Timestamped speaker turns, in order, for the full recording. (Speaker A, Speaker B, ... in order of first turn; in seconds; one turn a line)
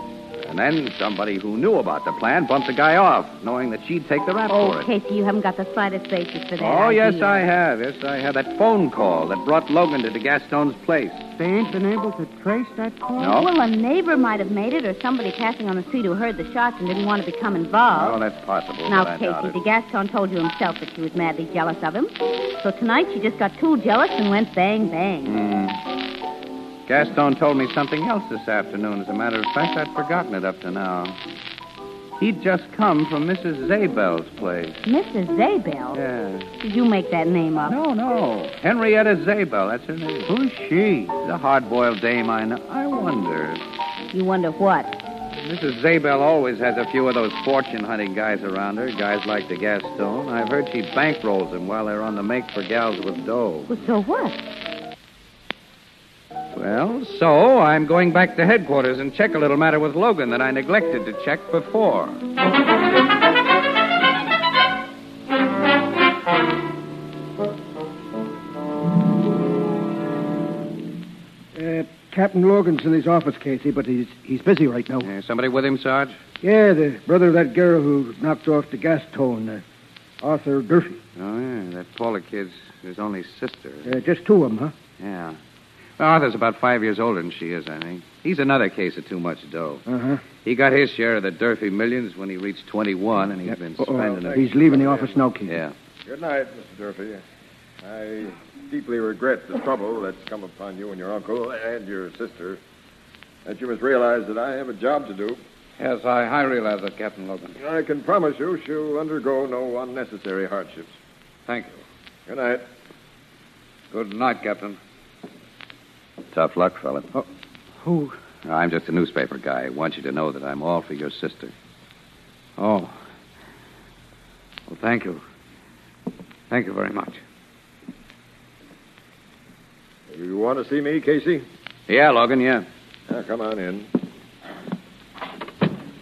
Speaker A: 0.4-4.9
Speaker B: 4.5-7.5
Speaker A: 6.6-11.3
Speaker C: 11.4-13.4
Speaker A: 13.2-13.5
Speaker B: 13.3-18.2
Speaker A: 17.9-19.6
Speaker B: 18.9-25.4
Speaker A: 25.2-25.8
Speaker A: 26.9-31.2
Speaker A: 32.2-34.8
Speaker B: 34.9-36.0
Speaker A: 35.9-36.5
Speaker B: 36.6-37.8
Speaker A: 37.6-40.3
Speaker C: 40.3-41.2
Speaker A: 41.2-43.6
Speaker B: 44.1-44.9
Speaker A: 45.4-53.7
Speaker B: 53.7-54.5
Speaker A: 56.5-62.2
Speaker D: 71.5-75.1
Speaker A: 75.0-76.2
Speaker D: 76.4-79.6
Speaker D: 80.2-81.0
Speaker A: 81.2-84.0
Speaker D: 83.9-84.7
Speaker A: 85.0-85.4
Speaker A: 86.0-89.8
Speaker D: 89.9-90.2
Speaker A: 90.4-94.5
Speaker D: 93.8-95.6
Speaker E: 94.0-95.2
Speaker A: 95.5-95.7
Speaker E: 96.1-97.2
Speaker E: 97.8-102.6
Speaker E: 103.5-105.4
Speaker A: 105.8-107.6
Speaker E: 107.6-111.0
Speaker A: 111.5-111.8
Speaker E: 112.3-112.6
Speaker A: 113.9-114.8
Speaker A: 116.3-117.2
Speaker A: 117.9-121.5
Speaker A: 122.6-123.0
Speaker A: 124.7-125.2
Speaker A: 126.5-127.2
Speaker E: 130.1-131.5
Speaker A: 131.9-132.7
Speaker E: 133.1-133.9